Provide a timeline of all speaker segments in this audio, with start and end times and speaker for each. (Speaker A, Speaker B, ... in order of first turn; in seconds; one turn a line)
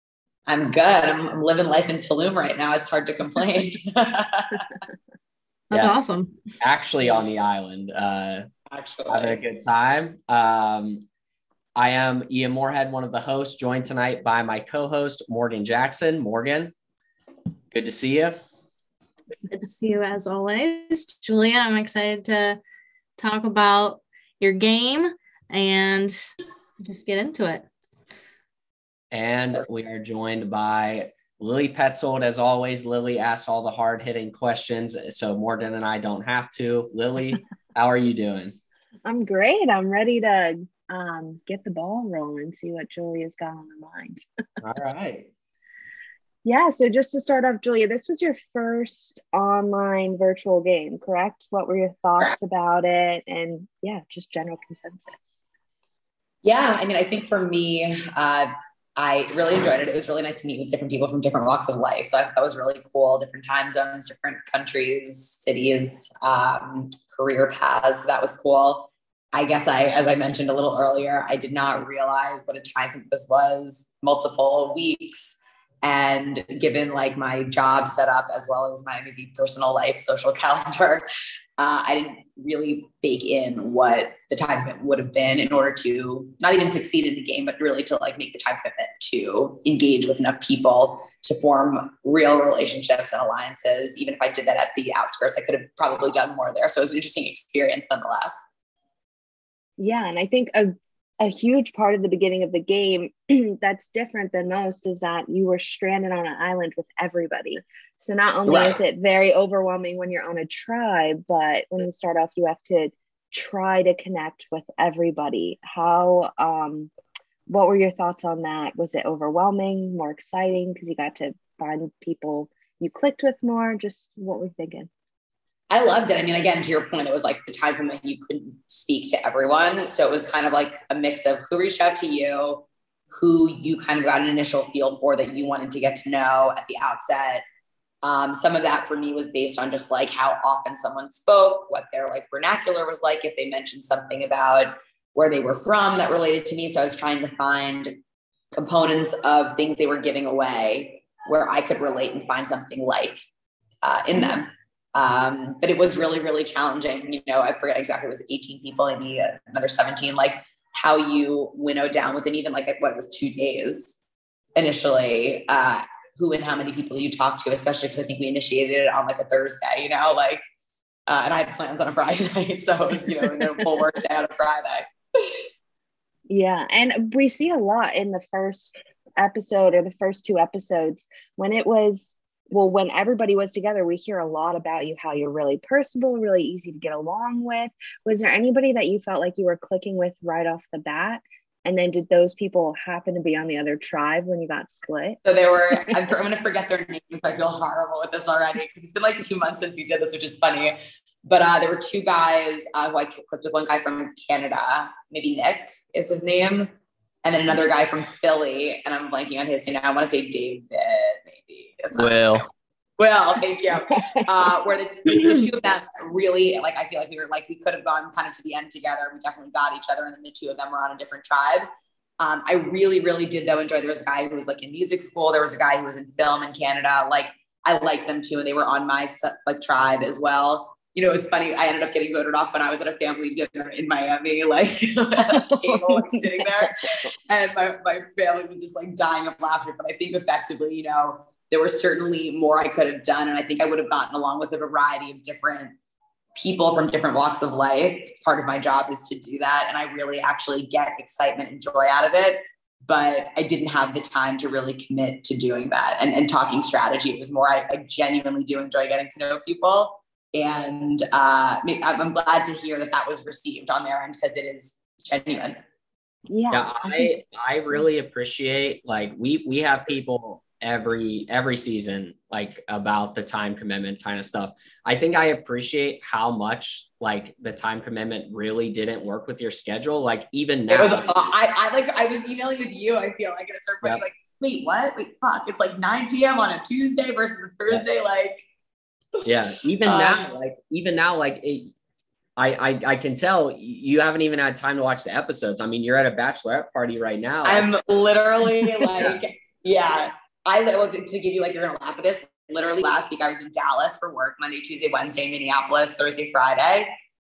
Speaker A: 0.5-4.7
Speaker B: 5.7-6.0
Speaker C: 5.7-6.4
Speaker B: 6.6-8.5
Speaker A: 8.7-9.4
Speaker B: 9.1-11.1
Speaker B: 11.8-16.7
Speaker B: 17.7-18.4
Speaker C: 19.5-22.6
Speaker C: 23.2-26.2
Speaker C: 26.8-27.7
Speaker B: 29.1-38.6
Speaker D: 39.0-44.2
Speaker B: 44.6-45.3
Speaker D: 46.4-55.4
Speaker A: 56.4-81.0
Speaker A: 81.6-98.4
Speaker D: 99.8-116.9
Speaker A: 108.5-108.8
Speaker D: 117.5-124.9
Speaker A: 125.7-137.4
Speaker A: 138.0-147.9
Speaker A: 148.5-153.2
Speaker A: 153.8-164.0
Speaker A: 164.6-170.4
Speaker A: 171.1-175.4
Speaker D: 173.1-173.7
Speaker D: 176.3-195.2
Speaker A: 195.2-206.7
Speaker A: 207.2-221.7
Speaker B: 211.9-212.5
Speaker A: 222.2-236.7
Speaker D: 235.3-236.7
Speaker A: 237.3-245.7
Speaker A: 246.3-265.6
Speaker D: 266.3-267.1
Speaker B: 266.5-281.1
Speaker A: 280.7-288.4
Speaker A: 289.2-290.3
Speaker B: 289.2-291.7
Speaker B: 292.4-297.7
Speaker A: 297.4-306.9